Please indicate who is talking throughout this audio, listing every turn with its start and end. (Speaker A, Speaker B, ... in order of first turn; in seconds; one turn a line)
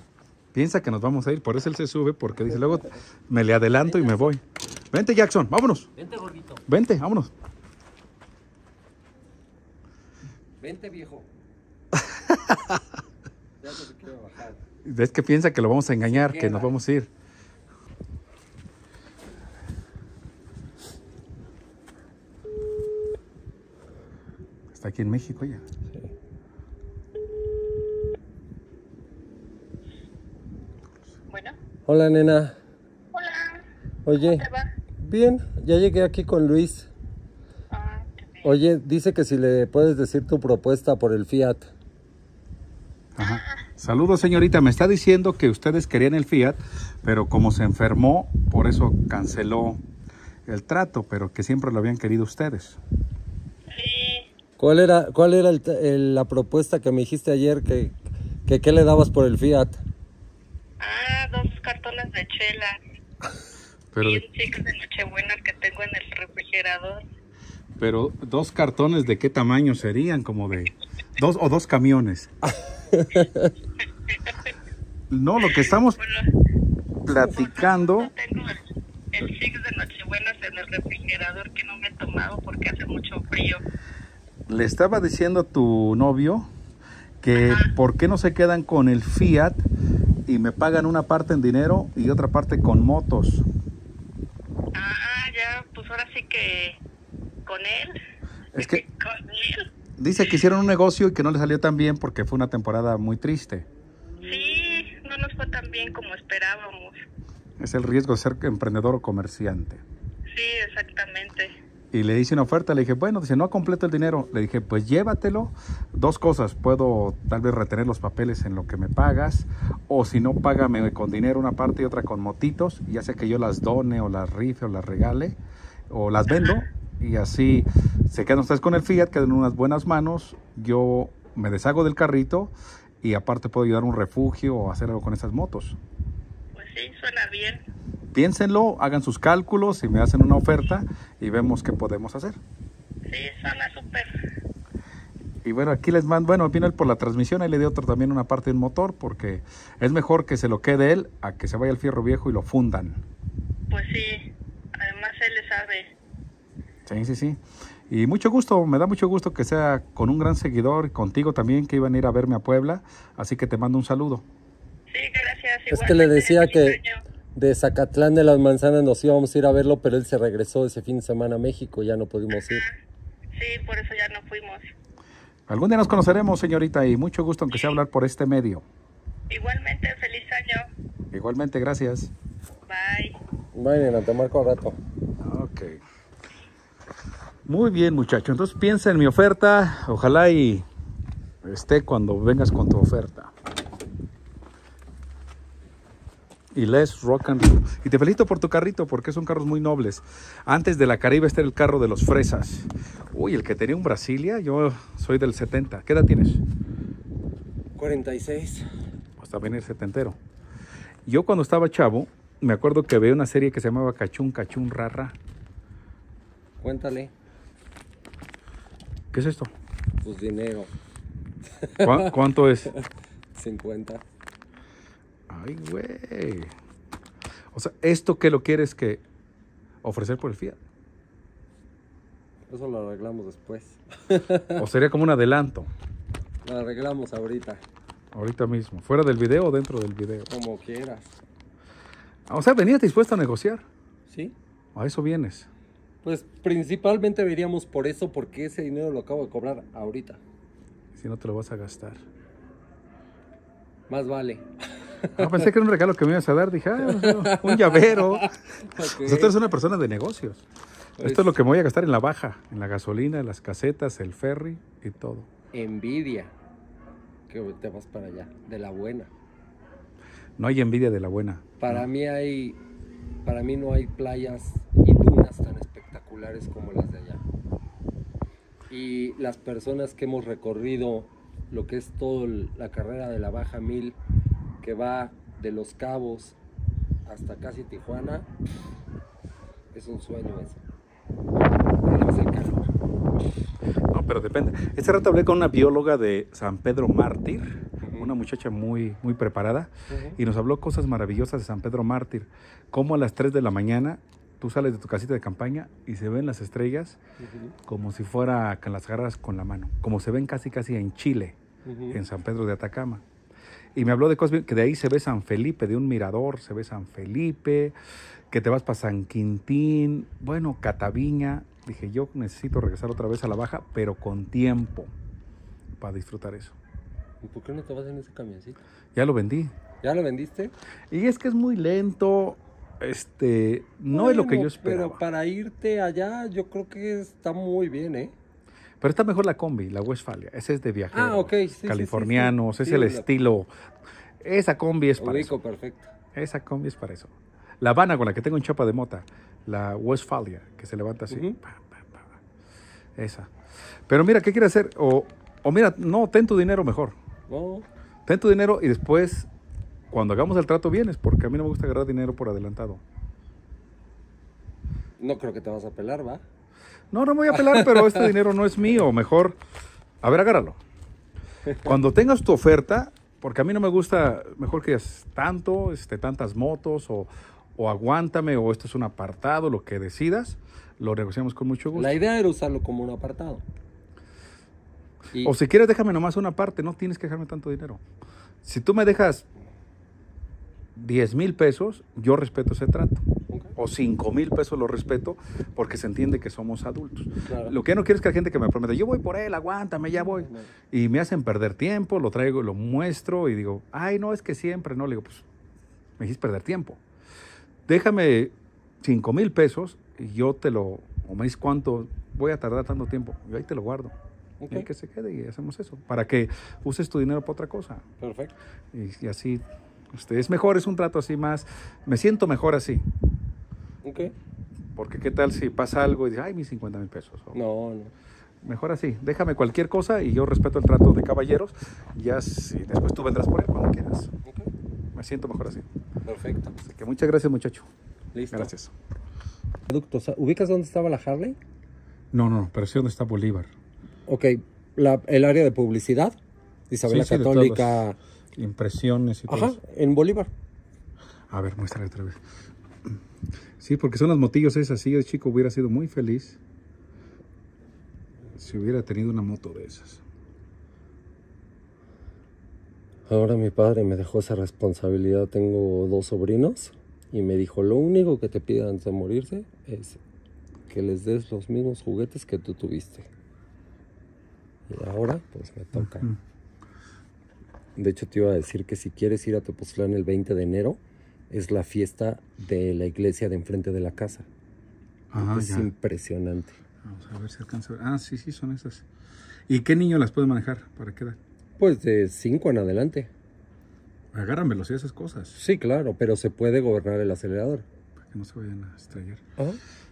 Speaker A: 0.5-5.9
Speaker B: 3.8-4.3
Speaker B: 6.0-6.6
Speaker A: 6.7-7.3
Speaker B: 10.6-11.3
Speaker B: 13.6-14.6
Speaker A: 14.8-17.1
Speaker B: 16.0-16.7
Speaker A: 24.7-25.6
Speaker C: 31.3-31.6
Speaker B: 31.9-32.5
Speaker C: 33.1-33.6
Speaker B: 34.0-34.5
Speaker C: 34.2-34.7
Speaker B: 35.0-36.9
Speaker C: 37.7-38.4
Speaker B: 38.4-41.7
Speaker A: 43.1-49.8
Speaker C: 43.2-43.5
Speaker A: 50.5-52.8
Speaker C: 53.7-54.3
Speaker B: 54.6-59.8
Speaker C: 60.8-62.8
Speaker A: 63.9-64.2
Speaker C: 64.0-67.0
Speaker A: 67.8-72.3
Speaker B: 72.4-73.5
Speaker A: 75.1-76.0
Speaker C: 75.4-76.2
Speaker A: 77.0-78.1
Speaker C: 77.3-78.6
Speaker C: 79.1-83.6
Speaker A: 84.5-86.5
Speaker A: 87.2-89.6
Speaker C: 87.3-87.7
Speaker A: 90.3-93.4
Speaker C: 94.7-96.8
Speaker C: 97.5-98.0
Speaker A: 98.5-98.8
Speaker C: 98.6-99.7
Speaker A: 100.0-103.7
Speaker C: 104.2-107.0
Speaker A: 107.6-109.8
Speaker C: 110.3-111.5
Speaker A: 111.9-125.4
Speaker A: 125.9-135.8
Speaker C: 136.5-137.6
Speaker A: 138.1-142.4
Speaker C: 143.1-144.1
Speaker A: 145.4-153.0
Speaker C: 153.7-154.2
Speaker C: 154.7-155.9
Speaker A: 156.8-164.2
Speaker C: 164.9-167.0
Speaker B: 165.7-166.8
Speaker B: 167.3-172.7
Speaker C: 172.4-172.7
Speaker C: 173.3-174.6
Speaker A: 175.5-178.6
Speaker C: 179.3-180.7
Speaker A: 181.1-182.1
Speaker C: 182.7-183.2
Speaker B: 183.5-184.8
Speaker A: 185.2-185.8
Speaker A: 187.4-190.6
Speaker A: 191.4-193.3
Speaker A: 196.5-206.4
Speaker B: 207.7-208.7
Speaker A: 209.2-210.2
Speaker A: 211.1-215.2
Speaker B: 216.6-217.1
Speaker A: 219.1-219.5
Speaker B: 220.0-220.7
Speaker B: 221.5-222.2
Speaker A: 221.8-222.7
Speaker B: 222.7-224.0
Speaker A: 225.3-226.5
Speaker A: 227.5-229.0
Speaker A: 229.8-230.6
Speaker B: 232.5-234.6
Speaker A: 234.6-235.7
Speaker B: 236.4-237.6
Speaker A: 238.1-240.3
Speaker B: 240.3-241.2
Speaker A: 242.3-243.6
Speaker B: 244.1-244.3
Speaker A: 244.7-245.5
Speaker B: 246.0-250.2
Speaker A: 250.9-252.0
Speaker B: 253.9-255.5
Speaker A: 255.1-258.3
Speaker B: 256.8-259.4
Speaker A: 258.9-260.4
Speaker B: 261.0-261.3
Speaker A: 261.0-265.3
Speaker B: 265.5-266.3
Speaker B: 267.3-269.1
Speaker A: 270.4-271.9
Speaker B: 271.6-272.6
Speaker B: 273.2-277.2
Speaker B: 278.7-284.0
Speaker B: 284.6-286.4
Speaker B: 287.0-288.3
Speaker B: 289.7-290.6
Speaker B: 291.8-292.7
Speaker A: 293.9-307.0
Speaker B: 297.8-298.1
Speaker B: 299.9-300.2
Speaker B: 307.2-307.5
Speaker A: 307.6-311.4
Speaker B: 311.6-312.0
Speaker A: 311.9-313.0
Speaker A: 313.7-317.7
Speaker A: 318.3-324.9
Speaker A: 325.8-326.6
Speaker B: 327.2-328.6
Speaker A: 328.9-329.5
Speaker B: 329.8-330.5
Speaker A: 330.9-335.0
Speaker B: 333.9-338.1
Speaker A: 338.8-343.5
Speaker B: 340.9-343.1
Speaker A: 344.2-345.3
Speaker B: 345.0-345.9
Speaker A: 346.1-352.2
Speaker B: 351.1-351.4
Speaker A: 353.0-353.3
Speaker A: 353.9-356.9
Speaker B: 357.3-357.7
Speaker A: 358.1-359.3
Speaker A: 359.9-362.8
Speaker B: 365.0-366.2
Speaker A: 366.9-369.4
Speaker B: 367.3-368.1
Speaker A: 370.0-370.6
Speaker A: 371.6-381.9
Speaker B: 381.7-383.4
Speaker A: 385.2-387.8
Speaker A: 388.4-389.2
Speaker A: 390.8-393.0
Speaker B: 393.3-393.5
Speaker A: 393.6-405.2
Speaker B: 397.2-397.5
Speaker B: 400.0-400.5
Speaker A: 406.0-406.8
Speaker A: 407.7-413.9
Speaker B: 414.4-414.7
Speaker A: 414.5-417.8
Speaker B: 418.0-418.3
Speaker A: 418.7-422.8
Speaker B: 423.8-424.1
Speaker A: 424.8-427.4
Speaker B: 427.3-427.9
Speaker A: 428.4-434.1
Speaker B: 434.2-434.5
Speaker A: 434.9-435.6
Speaker B: 436.0-436.6
Speaker A: 436.6-437.7
Speaker B: 438.1-438.5
Speaker A: 438.3-438.7
Speaker B: 439.7-441.4
Speaker A: 442.1-443.5
Speaker B: 444.1-446.2
Speaker B: 446.7-448.0
Speaker A: 446.9-447.8
Speaker A: 448.4-449.6
Speaker B: 449.3-450.3
Speaker A: 451.3-452.2
Speaker A: 453.6-456.4
Speaker A: 458.4-460.0
Speaker B: 463.1-470.0
Speaker B: 470.7-473.1
Speaker B: 474.7-476.1
Speaker A: 475.8-476.2
Speaker B: 477.8-484.3
Speaker A: 485.1-485.7
Speaker B: 485.2-486.5
Speaker A: 486.8-488.8
Speaker A: 489.5-491.2
Speaker B: 491.6-493.1
Speaker A: 494.1-495.4
Speaker B: 495.3-497.6
Speaker A: 498.1-499.2